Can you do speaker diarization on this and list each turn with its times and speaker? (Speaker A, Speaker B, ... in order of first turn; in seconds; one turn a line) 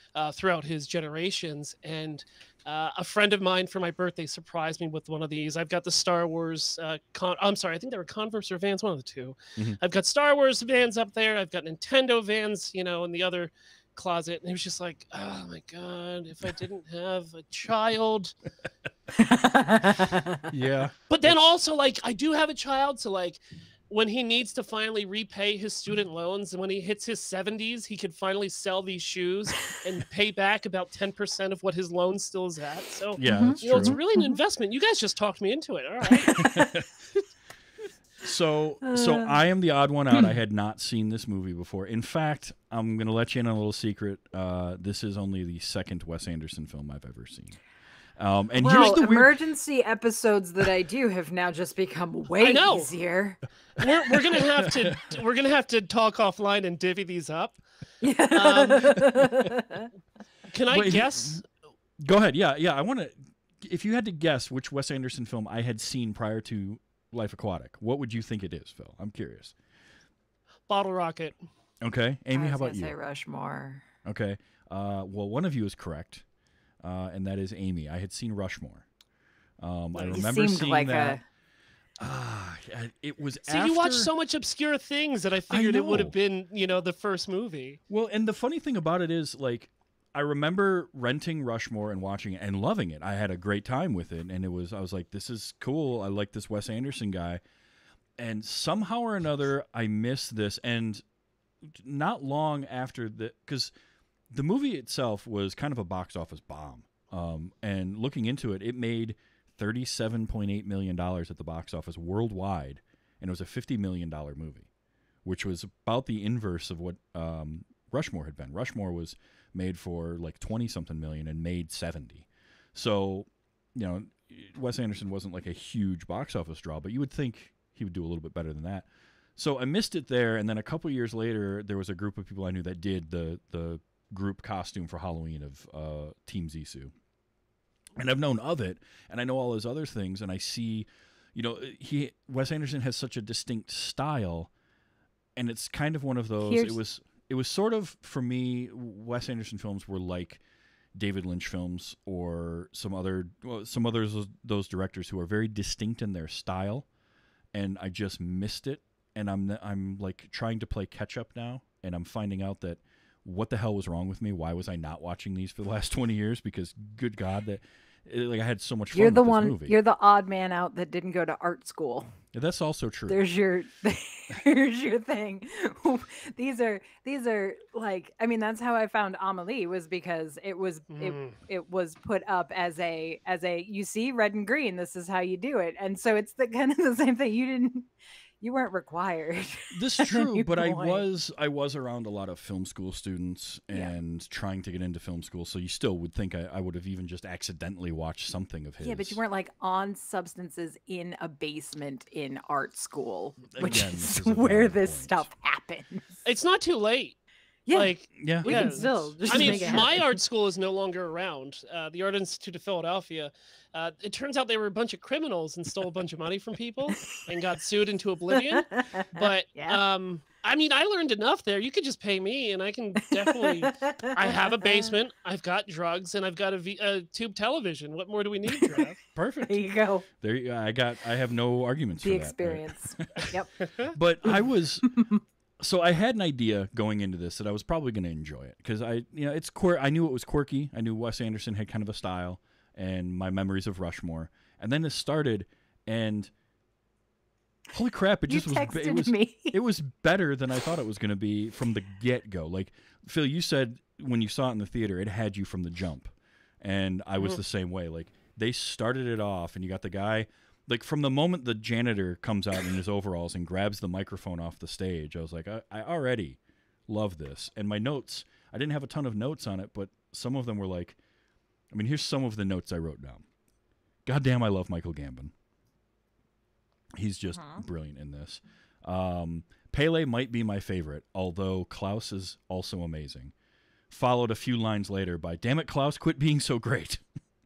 Speaker A: 0.1-18.3
Speaker B: 19.2-20.5
Speaker C: 20.5-21.4
Speaker A: 21.1-36.4
Speaker C: 33.2-34.0
Speaker B: 33.2-34.4
Speaker B: 36.2-36.7
Speaker C: 36.4-36.9
Speaker C: 38.2-47.6
Speaker B: 38.8-39.3
Speaker C: 48.2-49.3
Speaker B: 48.6-53.4
Speaker A: 52.4-52.9
Speaker A: 53.8-57.6
Speaker C: 54.6-55.1
Speaker B: 58.0-59.9
Speaker A: 58.3-59.0
Speaker A: 60.5-61.4
Speaker C: 60.7-61.4
Speaker C: 62.0-69.5
Speaker A: 70.7-71.4
Speaker C: 71.8-72.9
Speaker B: 72.3-73.9
Speaker C: 74.0-76.2
Speaker C: 76.8-78.8
Speaker C: 79.6-81.2
Speaker A: 79.9-80.2
Speaker B: 80.1-81.2
Speaker C: 82.0-84.1
Speaker A: 83.5-87.8
Speaker C: 85.5-86.1
Speaker C: 87.9-97.4
Speaker C: 98.2-101.0
Speaker C: 101.6-103.7
Speaker C: 104.3-114.7
Speaker C: 115.2-136.9
Speaker C: 138.0-144.5
Speaker C: 145.3-150.4
Speaker B: 146.4-146.8
Speaker C: 150.9-156.9
Speaker C: 157.5-169.8
Speaker B: 168.9-172.1
Speaker C: 172.3-173.2
Speaker B: 173.1-191.0
Speaker A: 180.9-181.4
Speaker C: 189.7-199.2
Speaker B: 198.8-206.2
Speaker C: 203.5-205.3
Speaker A: 206.2-207.2
Speaker B: 207.7-210.0
Speaker A: 207.7-229.0
Speaker C: 208.2-209.9
Speaker B: 218.3-219.8
Speaker B: 223.1-224.9
Speaker C: 229.1-229.6
Speaker B: 229.4-230.1
Speaker C: 230.2-233.3
Speaker B: 232.0-233.5
Speaker C: 233.9-234.9
Speaker B: 234.2-235.2
Speaker C: 235.6-246.3
Speaker C: 247.7-271.0
Speaker B: 248.3-249.6
Speaker C: 271.7-273.2
Speaker C: 274.1-275.3
Speaker C: 276.9-283.3
Speaker B: 277.3-277.6
Speaker C: 283.9-287.0